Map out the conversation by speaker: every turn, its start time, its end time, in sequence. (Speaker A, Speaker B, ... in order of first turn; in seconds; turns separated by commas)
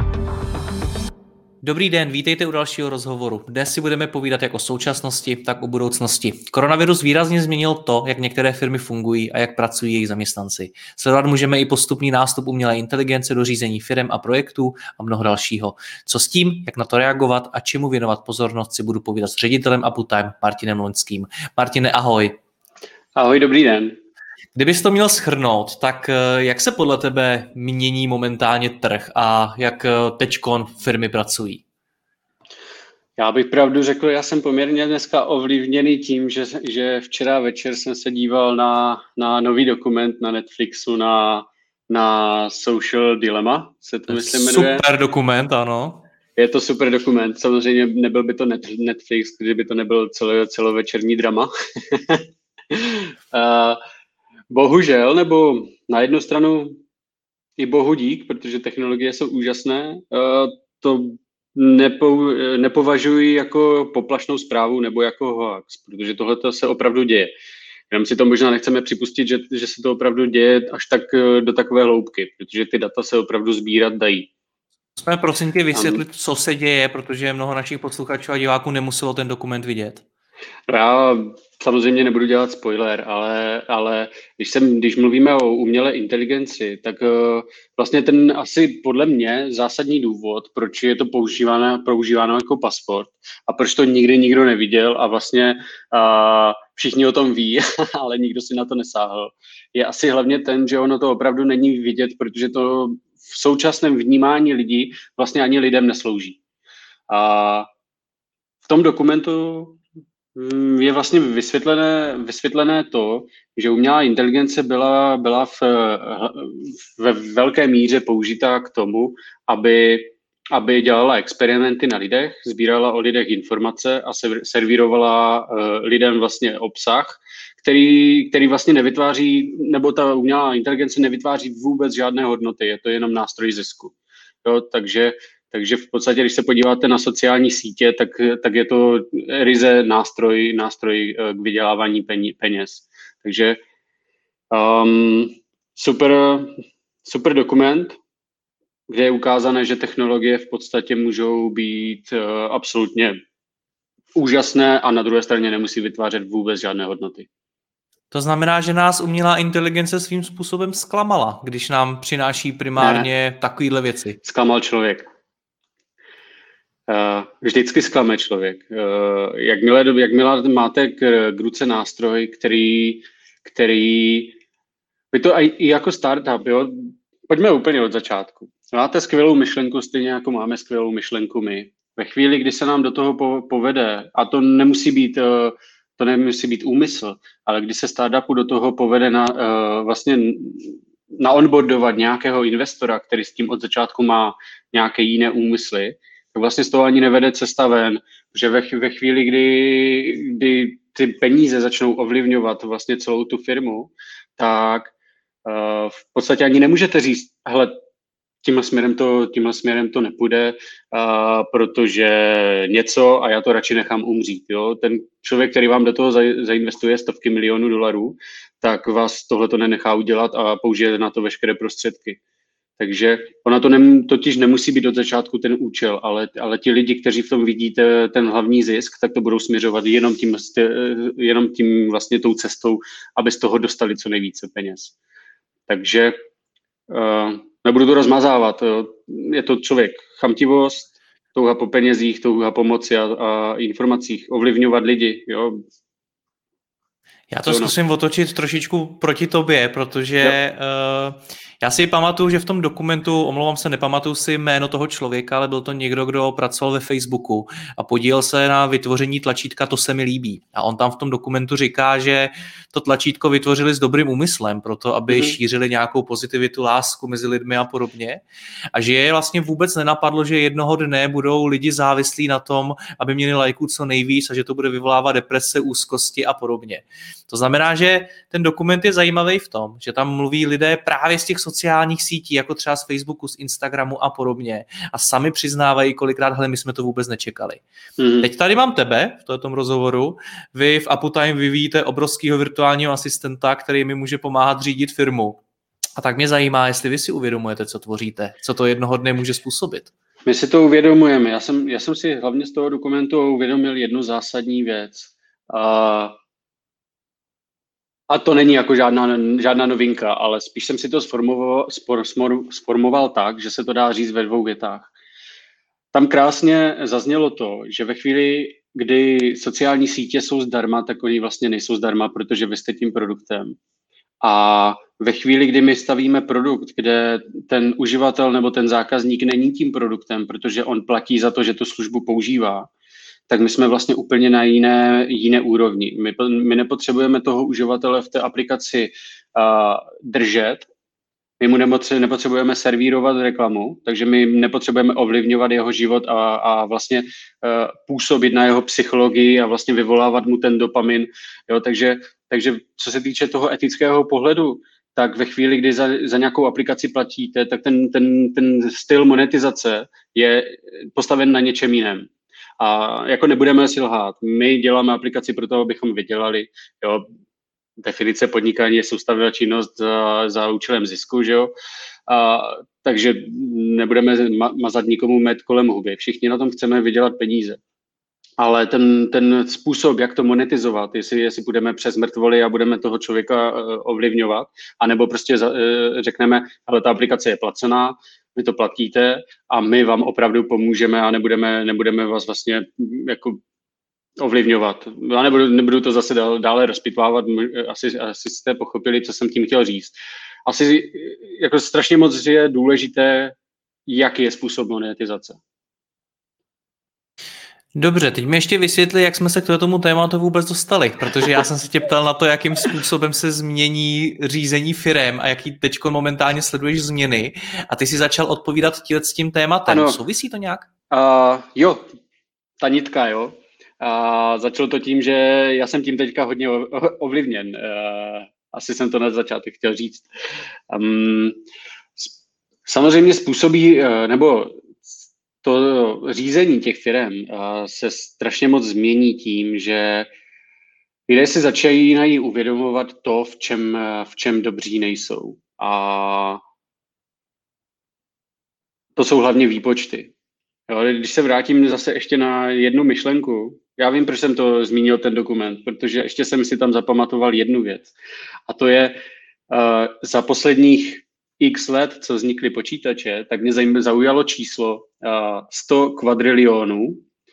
Speaker A: 1.6-22.4, Speaker B: 23.2-24.0, Speaker A: 24.6-31.6, Speaker B: 33.2-44.8, Speaker A: 44.1-46.0, Speaker B: 46.4-53.8, Speaker B: 54.5-56.8, Speaker B: 57.6-67.3, Speaker B: 67.9-74.3, Speaker A: 75.0-80.0, Speaker B: 75.7-76.0, Speaker B: 80.7-106.4, Speaker B: 107.1-107.7, Speaker B: 108.7-109.8, Speaker B: 110.3-143.6, Speaker B: 144.5-148.0, Speaker B: 148.9-153.2, Speaker B: 154.2-157.3, Speaker A: 158.1-164.2, Speaker B: 162.8-163.1, Speaker B: 164.2-165.0, Speaker B: 166.9-174.4, Speaker B: 175.1-204.9, Speaker B: 205.4-207.7, Speaker B: 208.4-222.2, Speaker B: 222.8-234.9, Speaker B: 235.7-236.2, Speaker B: 236.9-245.6, Speaker A: 247.3-268.2, Speaker B: 247.5-247.7, Speaker B: 265.1-265.4, Speaker A: 268.8-287.6, Speaker B: 288.0-288.3, Speaker A: 288.2-295.4, Speaker A: 296.0-299.9, Speaker B: 300.3-306.1, Speaker B: 308.1-314.9, Speaker B: 315.9-323.6, Speaker B: 324.2-332.7, Speaker B: 333.3-340.7, Speaker B: 341.4-362.1, Speaker B: 362.6-367.1, Speaker B: 367.8-371.5, Speaker B: 372.1-377.6, Speaker B: 378.4-393.4, Speaker B: 394.2-399.9, Speaker B: 400.5-403.4, Speaker B: 403.9-405.4, Speaker A: 407.8-420.7, Speaker B: 411.1-411.4, Speaker B: 419.7-420.0, Speaker B: 420.9-421.8, Speaker B: 422.6-430.1, Speaker B: 430.7-431.4, Speaker B: 432.7-440.1, Speaker B: 441.1-446.4, Speaker B: 449.0-450.1, Speaker B: 450.7-457.9, Speaker B: 458.5-459.0, Speaker B: 459.5-467.0